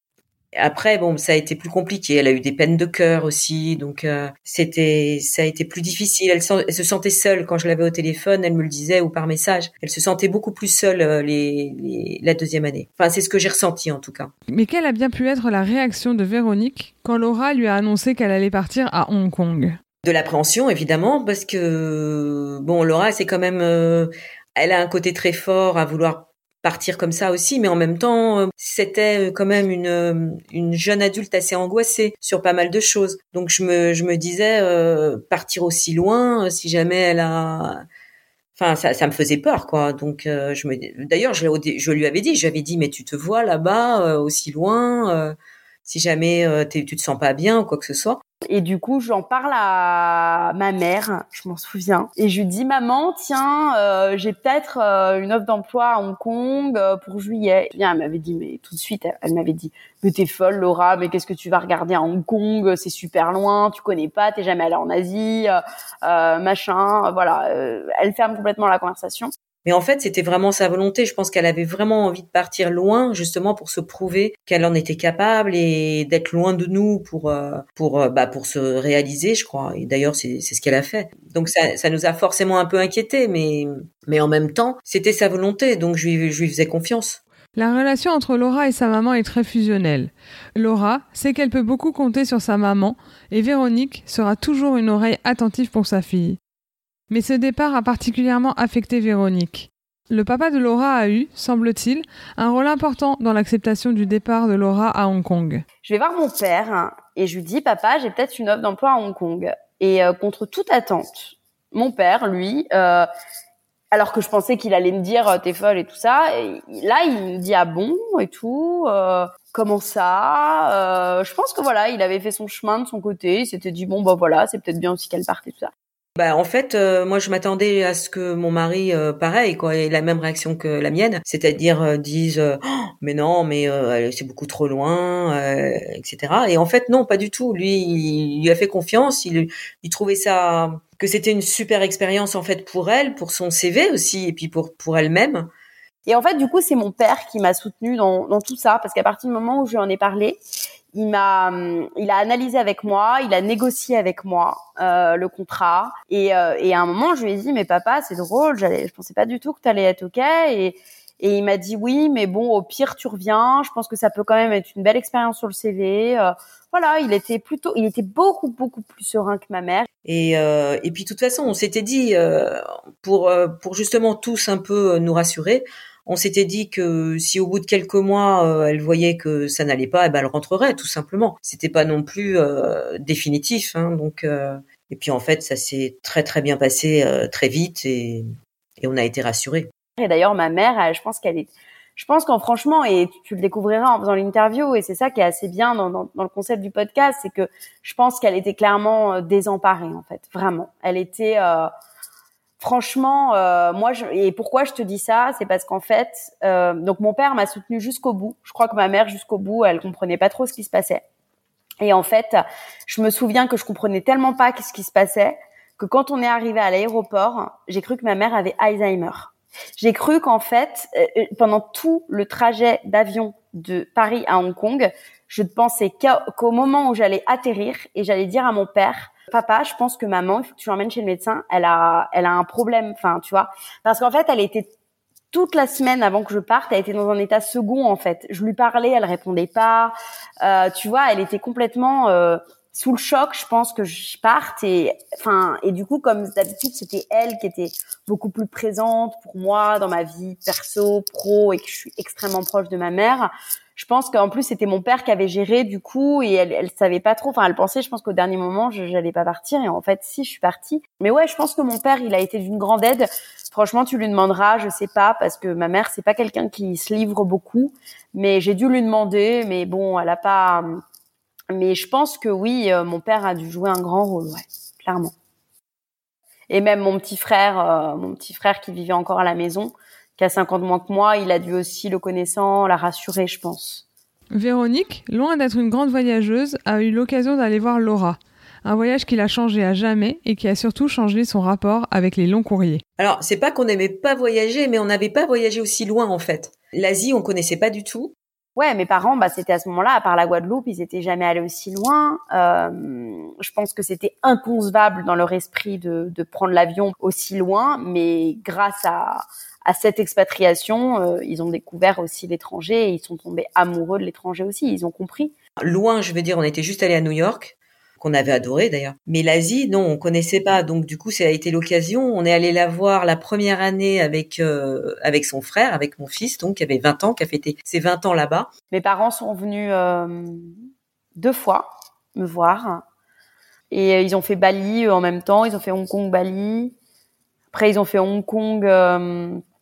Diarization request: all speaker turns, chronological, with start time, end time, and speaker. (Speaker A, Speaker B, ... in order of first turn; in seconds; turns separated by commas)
Speaker A: 0.6-14.3, Speaker B: 14.5-19.8, Speaker A: 20.0-37.8, Speaker A: 38.5-48.2, Speaker C: 48.5-69.3, Speaker A: 69.6-87.2, Speaker B: 87.5-96.4, Speaker B: 97.1-105.6, Speaker C: 105.8-113.1, Speaker C: 113.9-125.7, Speaker A: 126.2-145.5, Speaker C: 146.1-150.4, Speaker C: 150.9-169.9, Speaker A: 170.0-188.3, Speaker A: 188.8-189.7, Speaker C: 190.0-201.7, Speaker C: 202.6-211.0, Speaker C: 211.8-234.7, Speaker C: 235.3-270.8, Speaker C: 271.5-275.1, Speaker C: 276.5-283.8, Speaker B: 284.3-292.8, Speaker A: 293.0-298.1, Speaker C: 298.6-315.3, Speaker A: 315.6-328.5, Speaker C: 328.7-330.6, Speaker C: 331.1-332.8, Speaker C: 333.7-336.7, Speaker C: 337.5-339.4